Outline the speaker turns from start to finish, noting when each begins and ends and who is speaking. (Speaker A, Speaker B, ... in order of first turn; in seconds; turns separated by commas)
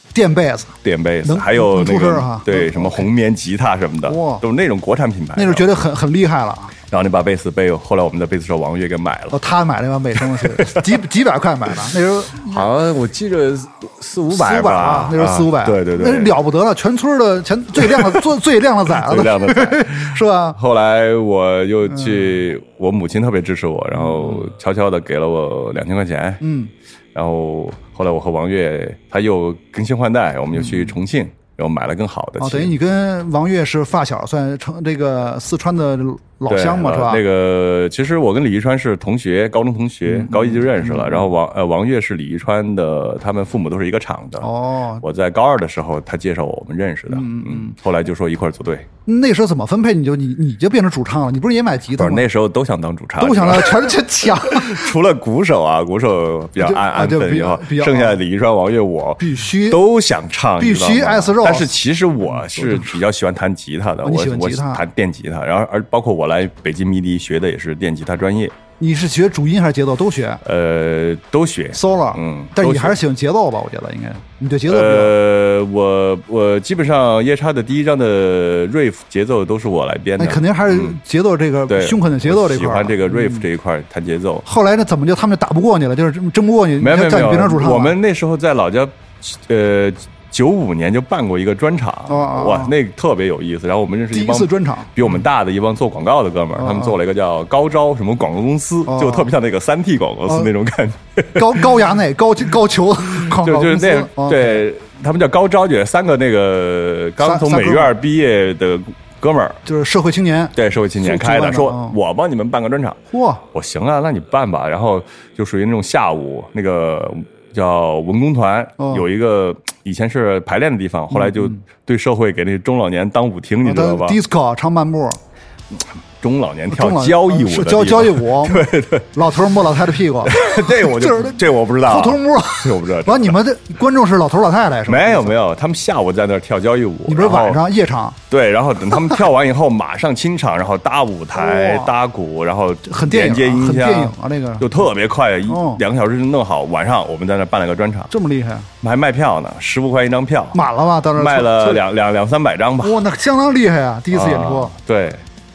Speaker A: 0.1-3.1, Speaker B: 0.8-5.7, Speaker A: 4.1-4.4, Speaker A: 5.4-6.8, Speaker B: 6.9-9.4, Speaker A: 9.3-12.6, Speaker B: 10.3-10.9, Speaker B: 12.4-16.4, Speaker A: 14.3-20.6, Speaker B: 17.8-18.2, Speaker B: 18.9-26.4, Speaker A: 26.4-26.7, Speaker B: 27.1-32.7, Speaker A: 32.4-37.2, Speaker B: 36.5-44.5, Speaker A: 40.1-41.2, Speaker A: 44.4-45.0, Speaker B: 45.0-48.9, Speaker A: 47.1-47.8, Speaker A: 49.1-52.2, Speaker B: 52.0-68.5, Speaker A: 53.2-54.9, Speaker A: 56.6-58.2, Speaker A: 59.2-59.8, Speaker A: 60.6-63.0, Speaker A: 64.0-64.8, Speaker A: 68.8-70.4, Speaker B: 70.4-73.0, Speaker A: 71.8-75.2, Speaker B: 74.7-81.0, Speaker A: 80.2-83.5, Speaker B: 81.7-84.5, Speaker A: 84.5-88.0, Speaker B: 86.8-101.8, Speaker A: 92.1-92.7, Speaker A: 94.1-95.0, Speaker A: 96.6-96.9, Speaker A: 98.9-99.3, Speaker A: 101.3-104.6, Speaker B: 103.1-109.6, Speaker A: 107.2-108.0, Speaker A: 109.7-112.0, Speaker B: 110.6-113.0, Speaker A: 113.1-113.4, Speaker B: 113.5-124.2, Speaker A: 118.8-119.1, Speaker A: 121.1-121.6, Speaker A: 123.6-125.2, Speaker B: 125.7-129.1, Speaker A: 126.7-135.3, Speaker B: 130.2-133.4, Speaker B: 134.9-137.6, Speaker A: 137.1-138.2, Speaker B: 138.3-148.1, Speaker A: 141.3-141.9, Speaker A: 142.9-144.7, Speaker A: 145.5-145.8, Speaker A: 148.1-148.7, Speaker B: 148.8-150.6, Speaker A: 150.5-151.8, Speaker B: 151.2-153.0, Speaker A: 152.8-154.7, Speaker B: 154.1-155.2